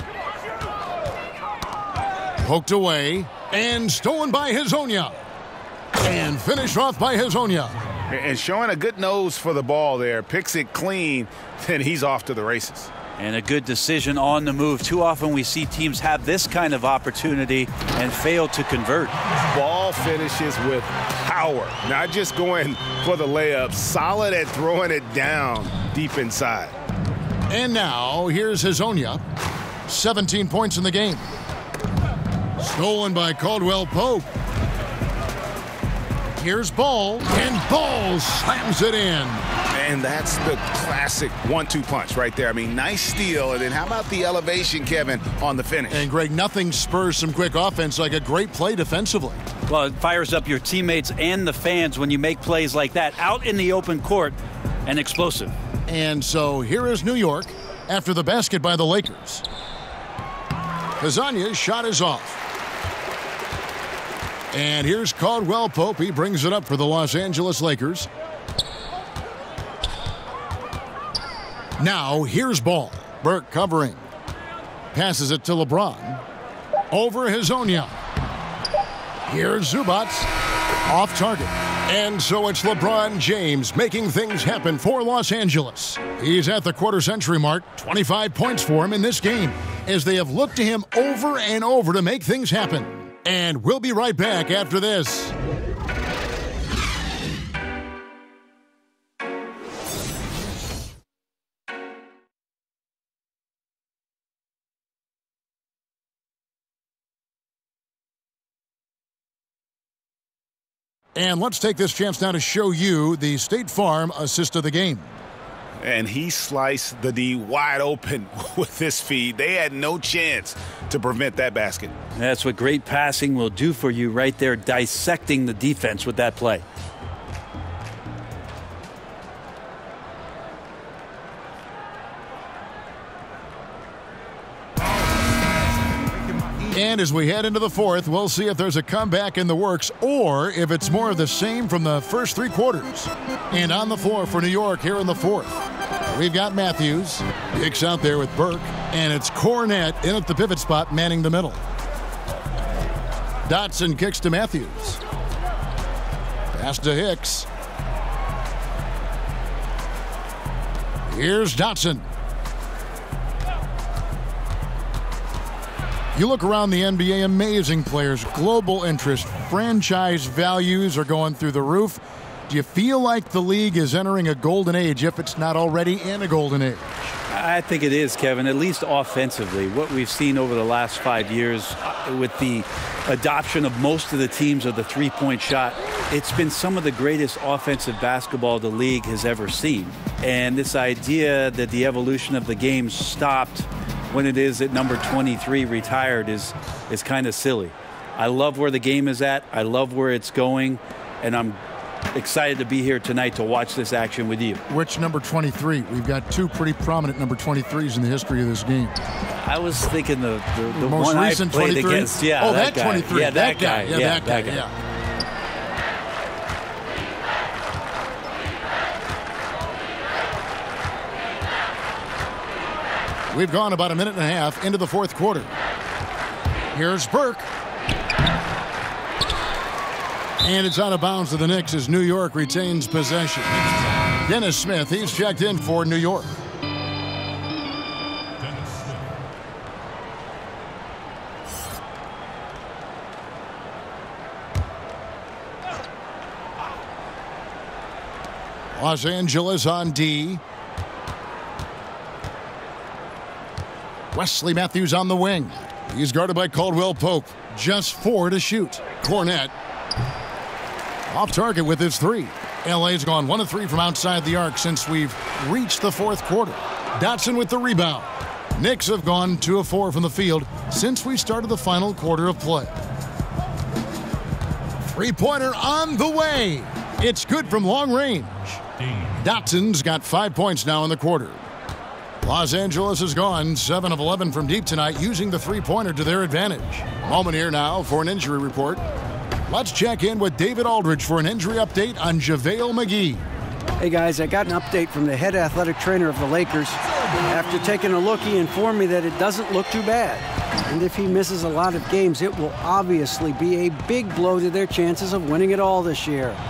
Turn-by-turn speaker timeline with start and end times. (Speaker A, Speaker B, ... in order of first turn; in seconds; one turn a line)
Speaker A: 2.4-5.2
Speaker A: 6.0-7.8
Speaker B: 8.1-12.9
Speaker C: 13.2-19.2
Speaker B: 19.5-26.8
Speaker A: 27.5-29.2
Speaker A: 29.9-31.3
Speaker A: 32.6-34.3
Speaker A: 36.4-39.5
Speaker B: 39.7-46.1
Speaker A: 45.9-49.4
Speaker C: 49.7-55.5
Speaker A: 55.9-59.5
Speaker A: 61.0-62.4
Speaker A: 64.5-68.1
Speaker A: 71.8-74.0
Speaker A: 74.9-76.2
Speaker A: 76.9-77.9
Speaker A: 79.3-80.3
Speaker A: 80.9-95.3
Speaker A: 111.2-115.1
Speaker B: 115.8-122.0
Speaker C: 122.2-126.7
Speaker A: 136.7-145.6
Speaker A: 146.1-151.6
Speaker A: 153.4-155.0
Speaker A: 156.5-157.5
Speaker A: 161.1-162.1
Speaker A: 166.1-177.0
Speaker C: 177.3-201.6
Speaker C: 202.1-204.6
Speaker A: 204.7-209.0
Speaker C: 209.3-214.7
Speaker A: 210.7-214.7
Speaker A: 223.3-225.5
Speaker A: 226.7-227.5
Speaker A: 230.4-233.7
Speaker A: 234.2-236.4
Speaker A: 248.7-250.4
Speaker A: 254.1-259.5
Speaker A: 261.1-272.8
Speaker A: 274.9-281.4
Speaker A: 282.2-288.8
Speaker A: 289.5-293.2
Speaker D: 293.8-306.4